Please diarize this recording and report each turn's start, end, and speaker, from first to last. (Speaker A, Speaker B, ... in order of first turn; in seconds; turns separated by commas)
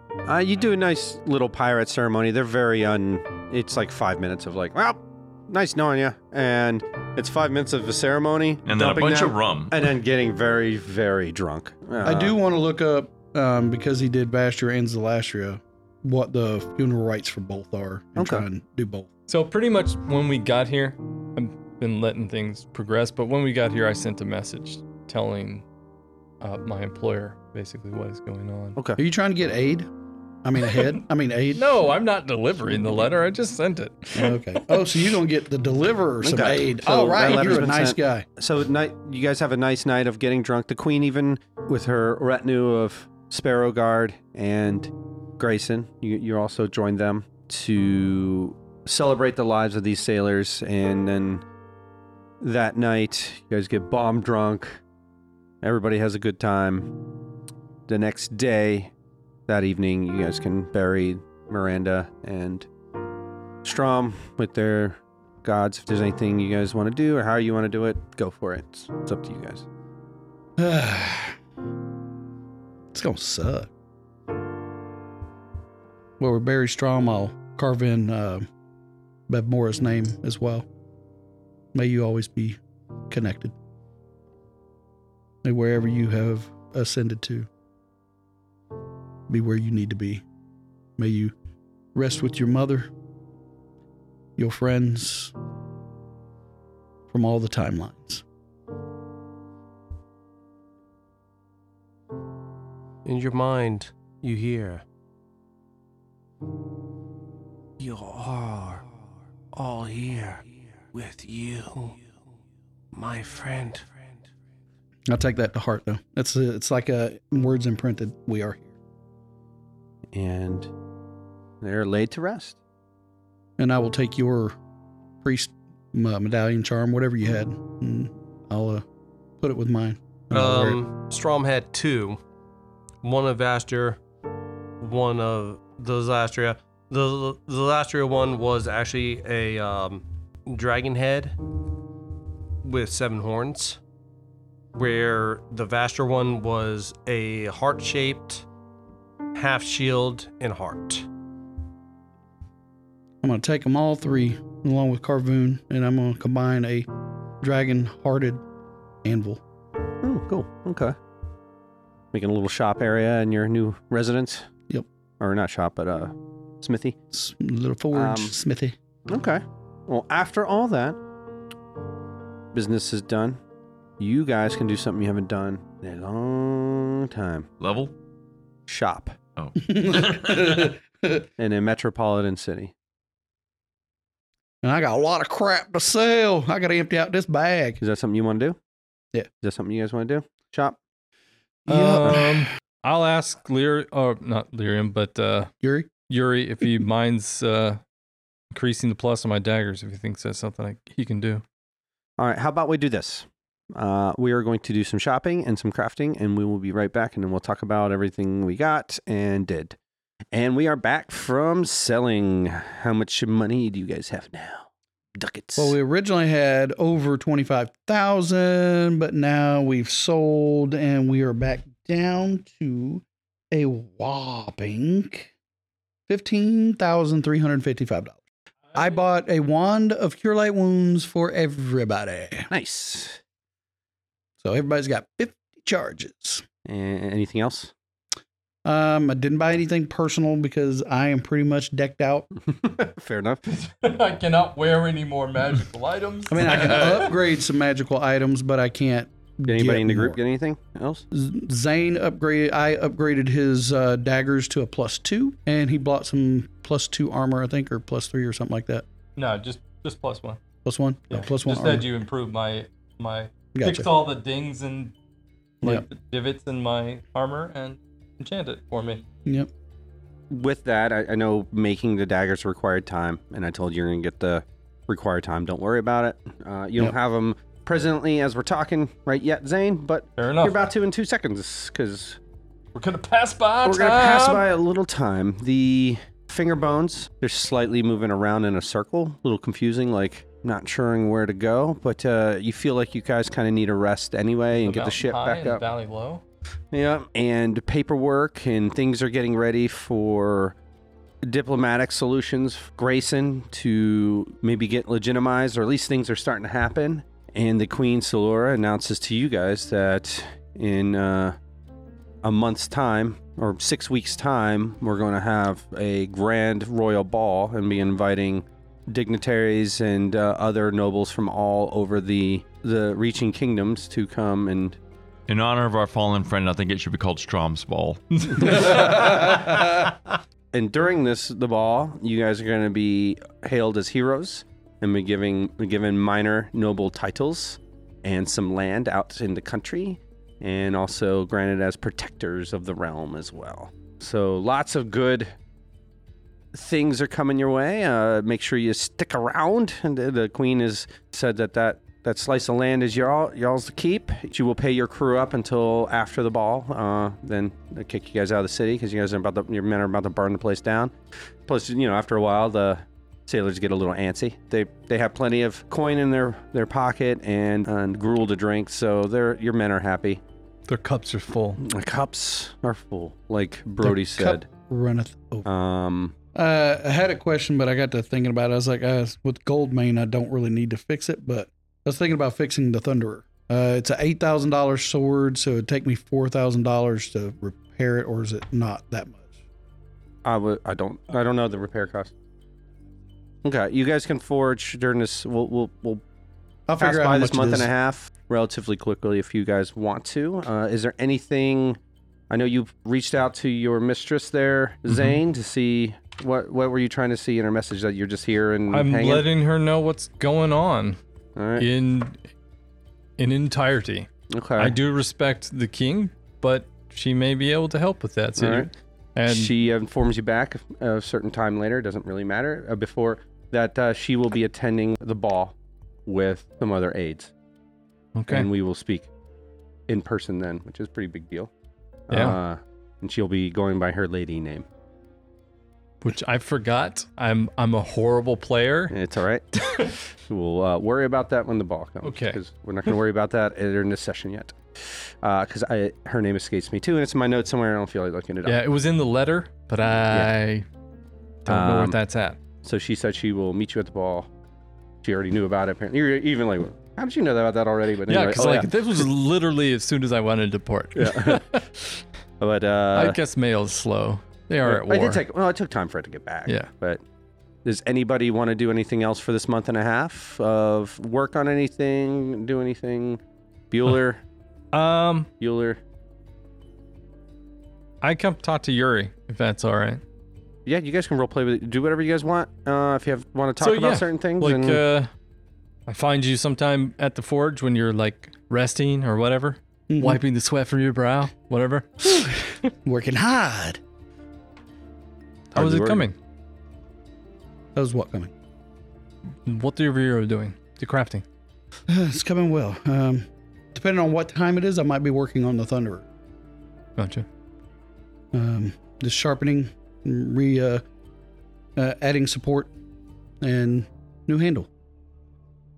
Speaker A: 0.2-12.4, Speaker B: 8.7-9.8, Speaker C: 12.0-19.1, Speaker A: 18.1-18.4, Speaker D: 19.3-25.6, Speaker D: 26.4-28.8, Speaker C: 29.0-29.9, Speaker C: 30.4-31.6, Speaker D: 31.5-34.8, Speaker C: 34.1-38.2, Speaker A: 36.2-51.4, Speaker A: 52.4-54.8, Speaker A: 55.6-57.0, Speaker A: 57.9-58.9, Speaker A: 59.5-62.7, Speaker A: 63.6-69.6, Speaker C: 70.6-71.4, Speaker C: 72.9-73.7, Speaker C: 76.2-78.5, Speaker C: 79.3-80.7, Speaker C: 81.7-83.5, Speaker C: 85.4-87.5, Speaker C: 89.3-90.2, Speaker C: 91.0-91.3, Speaker C: 91.9-92.9, Speaker C: 94.4-95.3, Speaker C: 97.1-98.2, Speaker E: 103.0-104.8, Speaker E: 107.8-108.8, Speaker E: 109.5-112.0, Speaker E: 112.9-114.2, Speaker C: 115.1-118.7, Speaker A: 120.1-120.7, Speaker A: 121.6-122.6, Speaker C: 123.6-124.6, Speaker C: 125.2-128.8, Speaker C: 129.4-130.8, Speaker E: 130.3-132.2, Speaker E: 133.0-134.0, Speaker E: 134.8-141.3, Speaker E: 142.6-143.8, Speaker E: 144.7-148.4, Speaker E: 149.3-151.1, Speaker C: 153.2-156.9, Speaker C: 157.4-158.4, Speaker C: 159.0-159.4, Speaker A: 160.0-160.9, Speaker A: 162.1-164.5, Speaker A: 165.2-167.0, Speaker C: 167.1-168.8, Speaker A: 167.9-168.3, Speaker A: 169.1-171.0, Speaker A: 172.5-173.4, Speaker A: 174.0-177.5, Speaker B: 177.6-177.9, Speaker A: 178.7-179.2, Speaker B: 179.4-180.7, Speaker C: 179.6-181.2, Speaker A: 181.4-182.7, Speaker C: 184.6-187.8, Speaker A: 187.8-188.6, Speaker A: 189.4-190.8, Speaker C: 191.7-192.5, Speaker D: 191.7-195.5, Speaker C: 195.6-195.9, Speaker D: 196.1-197.8, Speaker D: 198.5-201.4, Speaker A: 202.2-209.8, Speaker A: 210.3-215.8, Speaker C: 215.6-225.3, Speaker C: 226.1-228.2, Speaker C: 228.7-232.5, Speaker A: 232.5-233.2, Speaker C: 234.4-236.4, Speaker A: 236.6-237.7, Speaker C: 238.6-242.3, Speaker A: 242.4-243.4, Speaker D: 243.5-247.2, Speaker C: 246.3-250.2, Speaker A: 249.5-251.0, Speaker C: 251.1-258.8, Speaker D: 259.1-260.4, Speaker C: 260.6-261.9, Speaker D: 261.1-264.9, Speaker C: 263.5-263.9, Speaker D: 265.6-269.0, Speaker A: 270.3-282.2, Speaker D: 280.2-280.6, Speaker D: 282.7-284.4, Speaker A: 283.6-295.6, Speaker D: 294.5-296.2, Speaker A: 296.7-300.6, Speaker A: 301.2-311.4, Speaker A: 312.2-324.8, Speaker B: 325.3-329.5, Speaker D: 328.3-329.1, Speaker A: 330.5-345.3, Speaker A: 346.5-360.9, Speaker A: 361.4-370.2, Speaker D: 370.7-371.6, Speaker A: 371.6-374.4, Speaker C: 373.8-375.5, Speaker A: 375.4-376.1, Speaker C: 376.3-389.3, Speaker A: 390.2-392.1, Speaker A: 393.4-396.0, Speaker C: 396.7-397.7, Speaker A: 396.8-401.8, Speaker A: 402.3-409.3, Speaker D: 408.7-411.0, Speaker A: 411.4-411.7, Speaker D: 411.6-412.2, Speaker D: 413.2-419.5, Speaker A: 414.3-414.8, Speaker A: 418.4-418.7, Speaker A: 419.2-425.5, Speaker A: 426.1-427.3, Speaker D: 428.1-428.5, Speaker A: 428.3-429.1, Speaker A: 429.9-431.5, Speaker A: 432.1-434.7, Speaker D: 432.1-432.4, Speaker D: 436.0-438.9, Speaker A: 438.9-448.6, Speaker D: 442.0-442.4, Speaker D: 448.4-450.7, Speaker A: 450.0-450.3, Speaker D: 451.4-452.4, Speaker A: 451.5-452.0, Speaker A: 452.6-454.3, Speaker A: 455.0-459.1, Speaker D: 458.1-461.8, Speaker A: 460.9-461.4, Speaker A: 462.4-463.2, Speaker D: 462.9-465.2, Speaker A: 464.6-467.0, Speaker A: 467.6-474.2, Speaker D: 474.7-475.3, Speaker A: 475.4-475.8, Speaker D: 478.0-480.0, Speaker A: 480.6-484.8, Speaker D: 483.6-485.1, Speaker D: 485.9-492.3, Speaker C: 489.9-490.2, Speaker C: 492.8-493.8, Speaker A: 495.5-496.0, Speaker D: 495.5-496.1, Speaker C: 497.7-498.3, Speaker D: 499.4-501.2, Speaker C: 501.9-506.1, Speaker D: 507.0-507.2, Speaker C: 508.3-510.8, Speaker C: 511.8-512.7, Speaker C: 513.4-514.7